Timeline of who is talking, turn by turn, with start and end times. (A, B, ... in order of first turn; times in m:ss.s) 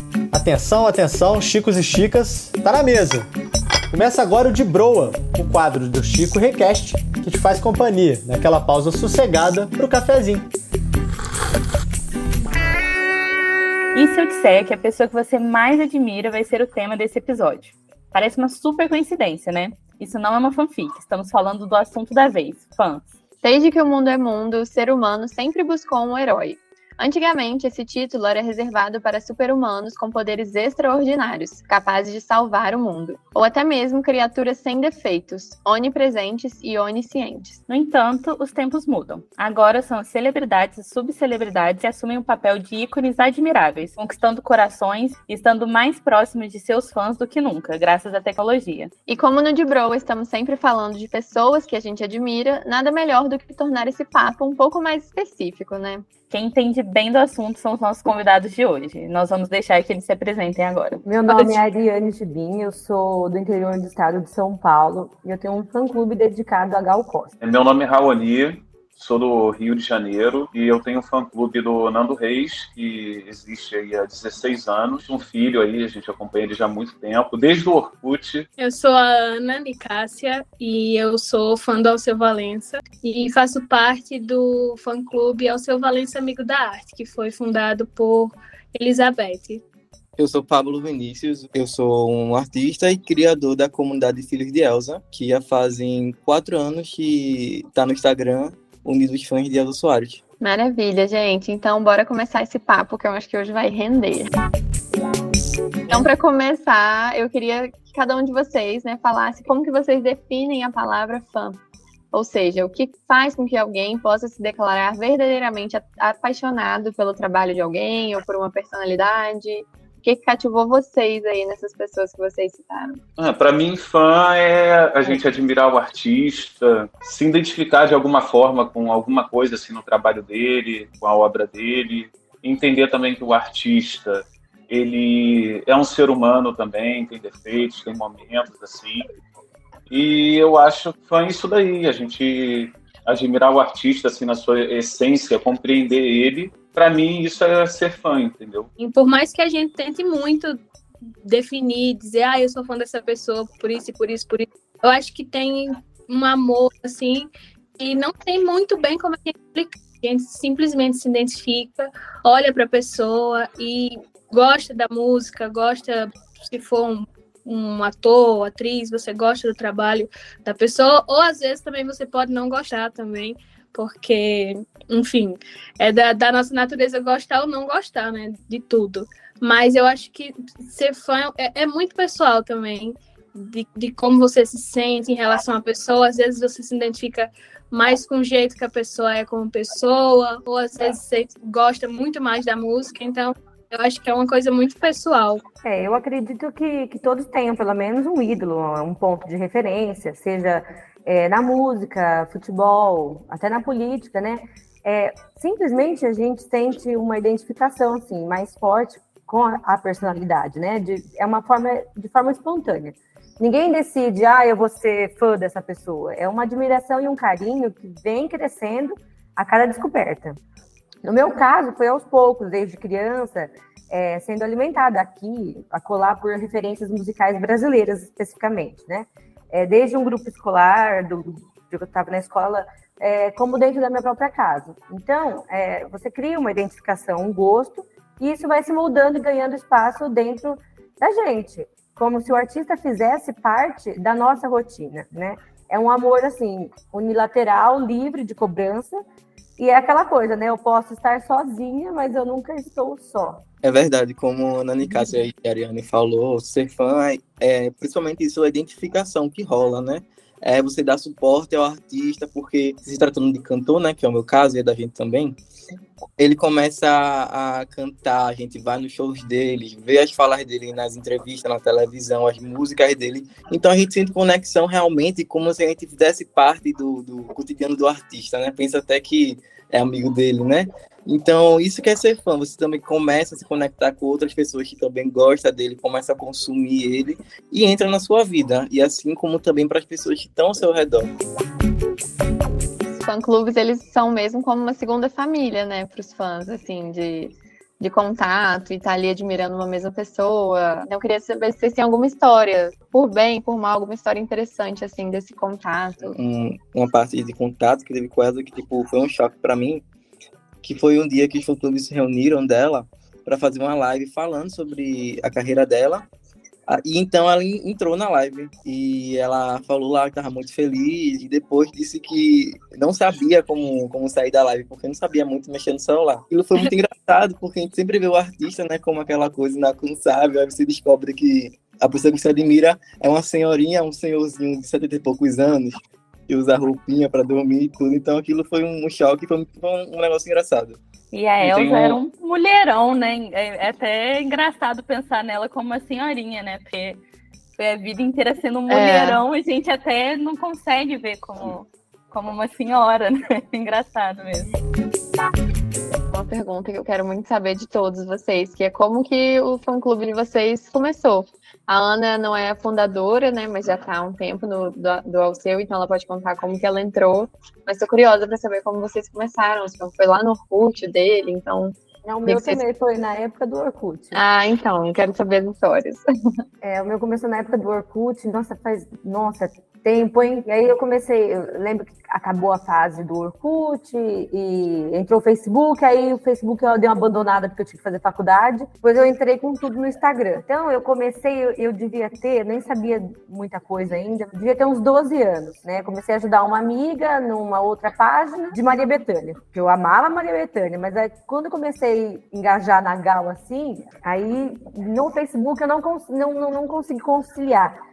0:00.3-0:03.3 A
0:03.9-0:10.5 A
0:14.0-0:23.1 B
0:23.4-0:37.6 C
0:37.7-0:48.9 B
0:49.1-0:56.1 C
0:56.3-1:01.6 B
1:01.0-1:07.3 D
1:07.4-1:18.5 E
1:18.6-1:29.6 F
1:30.2-1:40.2 G
1:40.4-1:44.3 C
1:45.9-1:51.6 C
1:52.1-2:03.0 C
2:03.2-2:19.1 E
2:19.9-2:28.7 E
2:28.8-2:30.6 F
2:31.2-3:15.4 F
3:15.6-3:40.4 D
3:41.0-4:09.0 D
4:09.6-4:13.4 D
4:13.6-4:25.4 G
4:26.2-4:51.1 G
4:52.9-5:06.2 C
5:06.1-5:09.8 G
5:10.6-5:16.1 G
5:16.7-5:40.8 G
5:41.1-5:47.0 B
5:41.4-5:42.0 E
5:47.6-5:54.6 B
5:48.7-5:49.2 C
5:56.1-6:12.6 C
6:12.0-6:14.2 D
6:14.1-6:16.0 C
6:16.6-6:47.8 D